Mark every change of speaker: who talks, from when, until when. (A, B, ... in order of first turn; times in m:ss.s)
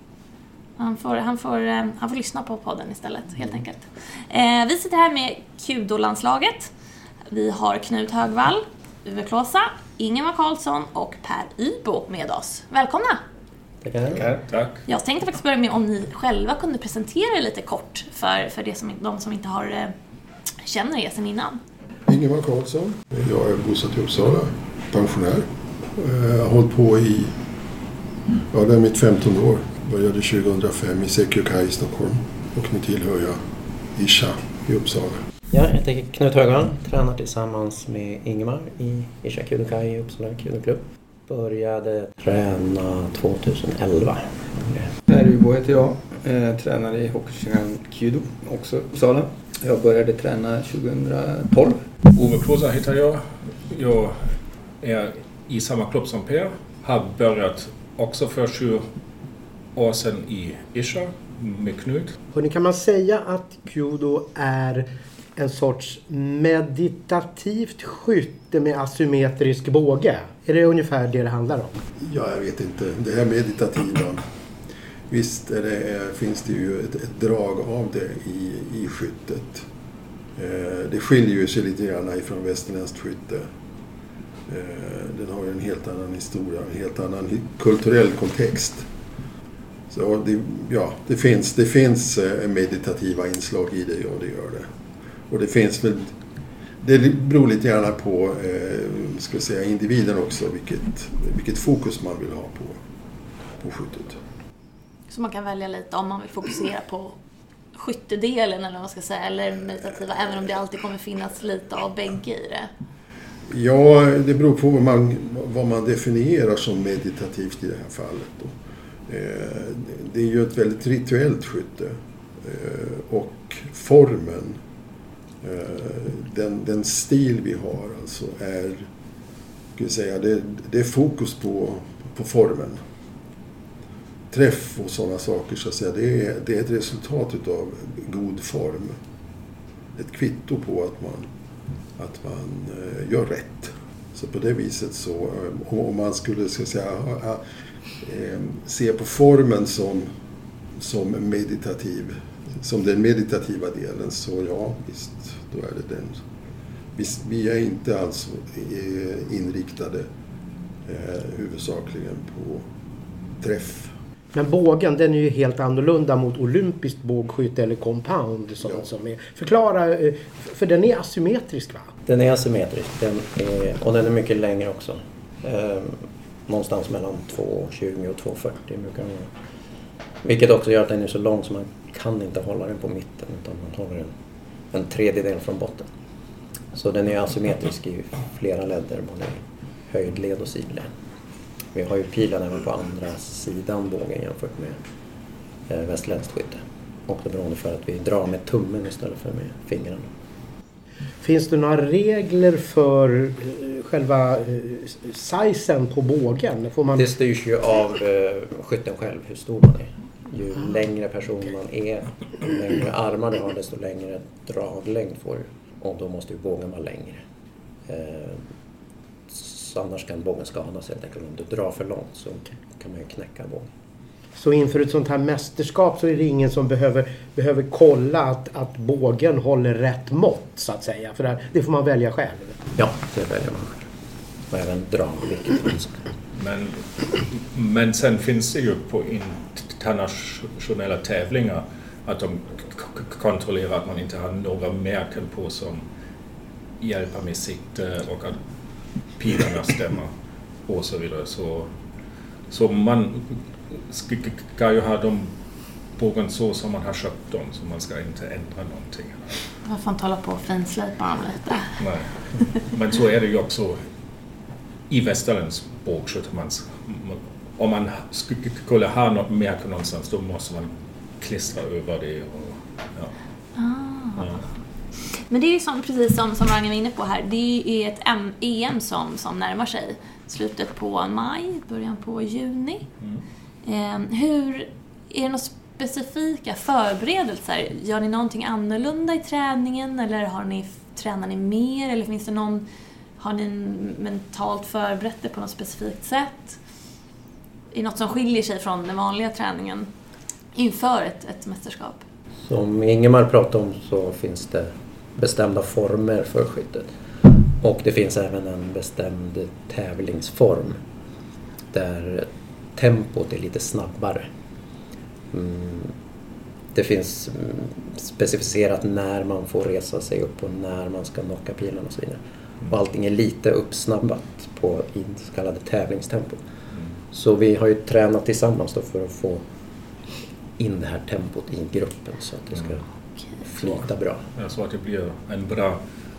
0:00.8-0:06.7 A
0:07.3-0:13.2 A
0:13.8-0:14.2 B
0:14.1-0:14.4 C
0:14.5-0:14.8 D
0:14.8-0:19.9 A
0:20.6-0:21.6 A
0:22.0-0:27.3 E
0:28.5-0:33.4 E
0:33.9-0:35.2 E
0:35.5-0:44.9 B
0:45.1-0:51.8 C
0:52.1-0:58.8 D
0:59.7-1:02.2 D
1:02.3-1:11.8 F
1:12.0-1:14.2 E
1:15.1-1:19.6 E
1:20.4-1:23.5 E
1:24.5-1:28.8 E
1:29.9-1:34.7 E
1:35.3-1:36.1 E
1:36.8-1:42.8 E
1:43.6-1:44.2 E
1:45.1-1:47.2 A
1:47.7-1:52.7 A
1:53.5-1:58.6 E
1:59.1-2:04.6 E
2:05.4-2:08.9 E
2:09.8-2:12.8 E
2:14.3-2:19.0 E
2:20.0-2:21.3 E
2:22.0-2:27.4 E
2:28.0-2:30.1 E
2:30.8-2:36.2 E
2:36.9-2:40.1 E
2:40.8-2:42.6 E
2:43.4-2:43.9 E
2:44.3-2:51.9 F
2:52.0-2:59.3 B
3:00.2-3:04.1 B
3:04.7-3:05.9 B
3:06.7-3:10.9 B
3:11.7-3:14.8 B
3:15.7-3:20.1 B
3:21.2-3:27.1 F
3:26.9-3:37.2 B
3:37.9-3:38.4 B
3:39.3-3:43.7 B
3:44.4-3:52.6 F
3:52.8-3:53.9 B
3:54.5-3:56.0 B
3:56.3-4:05.8 D
4:06.8-4:08.4 D
4:09.2-4:10.1 D
4:10.7-4:11.7 D
4:12.5-4:15.3 D
4:16.0-4:19.4 D
4:19.6-4:21.8 A
4:21.8-4:23.8 D
4:24.9-4:33.1 D
4:33.6-4:34.4 A
4:34.2-4:34.4 D
4:35.1-4:42.8 A
4:43.6-4:52.6 A
4:53.2-4:56.6 A
4:57.7-4:59.9 A
5:00.5-5:02.0 A
5:02.4-5:06.9 B
5:07.6-5:10.8 B
5:11.7-5:14.3 B
5:15.3-5:15.9 B
5:16.7-5:26.4 B
5:27.1-5:29.4 B
5:30.6-5:32.8 B
5:33.4-5:34.2 B
5:34.4-5:35.8 D